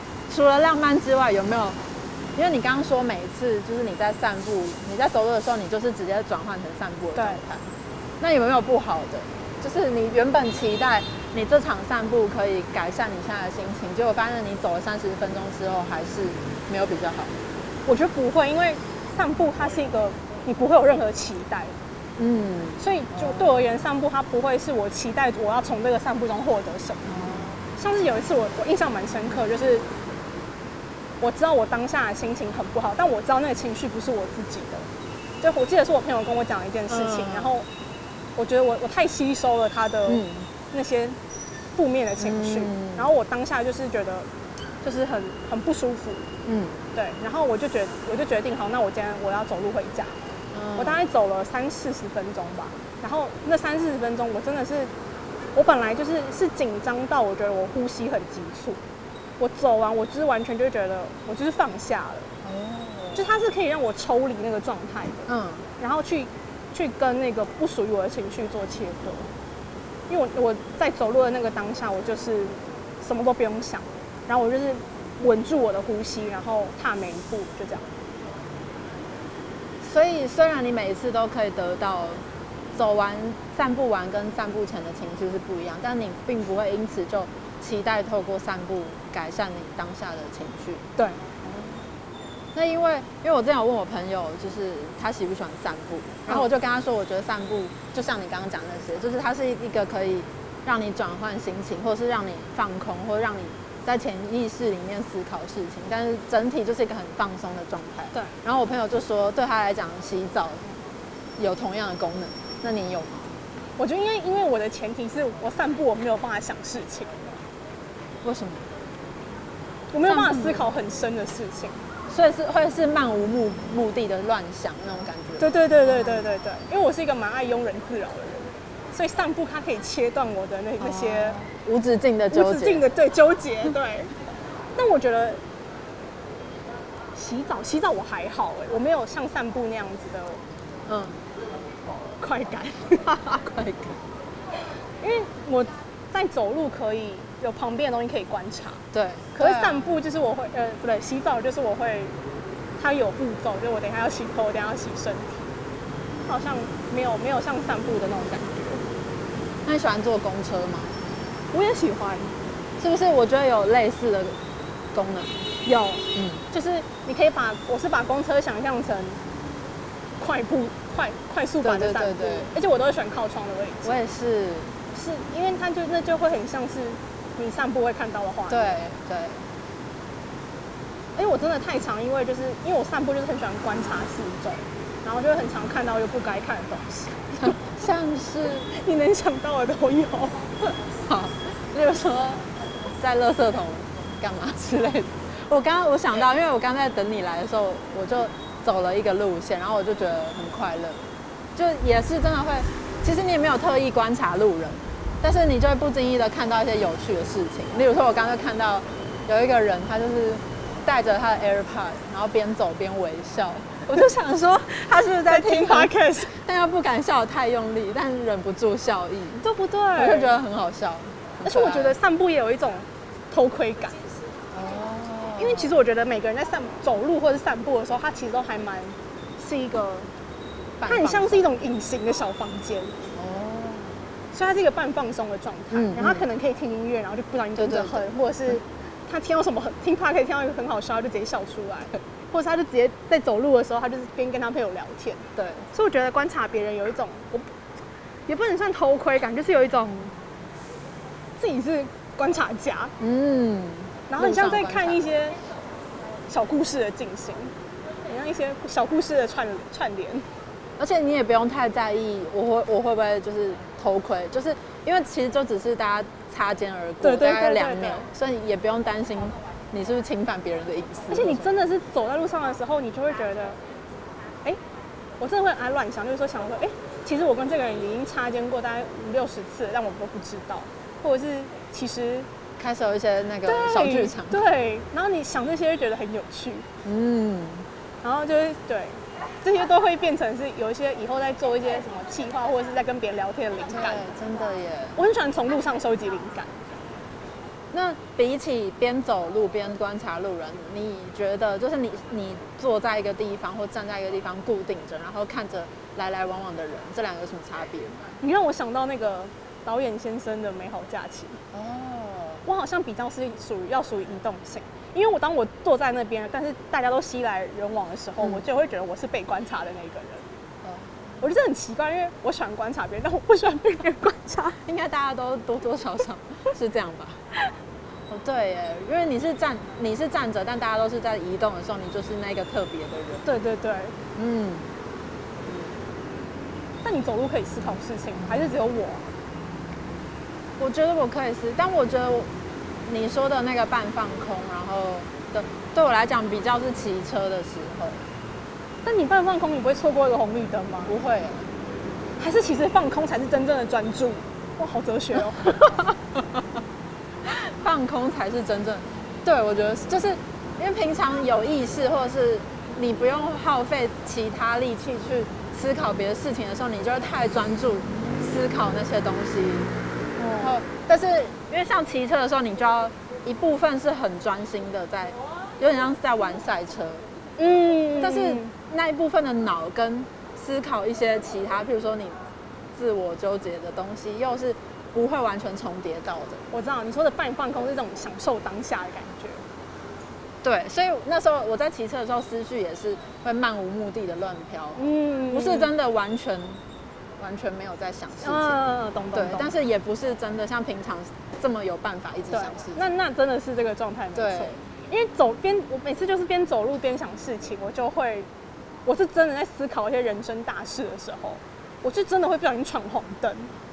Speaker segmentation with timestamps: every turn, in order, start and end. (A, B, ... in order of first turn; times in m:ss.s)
0:00.3-0:01.8 A
0:02.4-0:07.7 A
0:07.2-0:07.4 B
0:08.2-0:17.4 A
0:17.9-0:21.8 B
0:22.2-0:23.5 A
0:22.8-0:27.1 B
0:27.0-0:27.6 A
0:27.8-0:29.9 B
0:31.2-0:34.9 B
0:35.4-0:37.7 B
0:36.9-0:37.5 A
0:38.4-0:41.2 B
0:40.1-0:40.5 A
0:41.8-0:44.3 B
0:42.2-0:43.1 A
0:44.8-0:46.3 B
0:46.4-0:46.8 A
0:46.9-0:50.2 B
0:50.5-0:51.0 A
0:50.8-0:54.9 B
0:55.6-0:58.8 B
0:59.4-1:02.3 B
1:02.4-1:03.3 A
1:03.2-1:09.3 B
1:05.3-1:05.7 A
1:10.1-1:17.8 B
1:19.8-1:30.8 A
1:31.4-1:31.9 A
1:32.5-1:50.7 A
1:51.4-1:53.3 A
1:53.8-1:57.2 B
1:58.2-1:58.7 A
1:59.9-2:01.8 B
2:00.1-2:00.7 A
2:02.1-2:06.3 A
2:05.4-2:11.4 B
2:10.8-2:12.8 A
2:12.3-2:14.1 B
2:14.8-2:15.4 B
2:17.2-2:20.4 B
2:20.9-2:21.2 A
2:22.2-2:23.4 B
2:23.3-2:24.0 A
2:25.0-2:28.8 B
2:28.9-2:30.0 A
2:29.3-2:32.1 B
2:32.8-2:35.5 B
2:36.3-2:38.8 B
2:39.6-2:41.0 A
2:41.5-2:42.4 B
2:42.8-2:44.4 A
2:44.9-2:45.4 A
2:45.6-2:49.2 B
2:46.2-2:46.4 A
2:50.2-2:53.9 B
2:51.6-2:52.5 A
2:53.8-2:54.8 A
2:54.9-2:58.8 B
2:58.5-2:59.4 A
3:01.2-3:07.6 B
3:07.4-3:08.7 A
3:08.7-3:10.4 B
3:11.0-3:12.5 A
3:13.0-3:39.4 A
3:35.3-3:36.3 B
3:39.4-3:40.3 B
3:40.0-3:42.0 A
3:41.4-3:44.0 B
3:44.5-3:45.7 A
3:45.4-3:50.1 B
3:50.8-3:51.5 A
3:50.9-3:52.9 B
3:53.2-3:54.0 A
3:54.3-4:07.5 B
3:55.7-3:56.2 A
3:57.6-3:58.1 A
4:05.4-4:05.7 A
4:08.3-4:10.1 B
4:11.4-4:12.9 B
4:13.0-4:15.0 A
4:14.1-4:15.4 B
4:16.3-4:17.5 B
4:18.1-4:20.2 B
4:20.8-4:31.6 A
4:27.0-4:28.1 B
4:31.1-4:33.6 B
4:35.2-4:42.3 B
4:42.6-4:44.4 A
4:43.4-4:46.7 B
4:46.8-4:47.7 A
4:48.0-4:54.0 B
4:53.7-4:55.0 A
4:55.0-4:56.6 B
4:57.7-5:08.0 A
5:08.2-5:11.4 B
5:11.5-5:12.4 A
5:12.4-5:20.2 B
5:20.6-5:21.2 A
5:21.2-5:24.6 B
5:24.7-5:27.2 A
5:28.1-5:33.2 A
5:33.2-5:34.0 B
5:34.2-5:34.7 A
5:35.5-5:35.8 A
5:36.8-5:39.1 B
5:40.6-5:42.3 A
5:42.8-5:48.0 A
5:48.8-5:50.9 B
5:50.9-5:51.5 A
5:52.2-5:56.0 B
5:56.2-5:56.4 A
5:57.2-6:09.7 A
6:10.2-6:10.6 B
6:10.4-6:17.0 A
6:17.4-6:18.5 B
6:18.0-6:22.2 A
6:22.7-6:26.4 A
6:26.5-6:29.4 B
6:30.4-6:36.6 A
6:34.8-6:35.7 B
6:37.2-6:38.6 A
6:38.2-6:39.5 B
6:39.1-6:42.8 A
6:42.3-6:48.3 B
6:44.2-6:44.6 A
6:48.8-6:53.5 B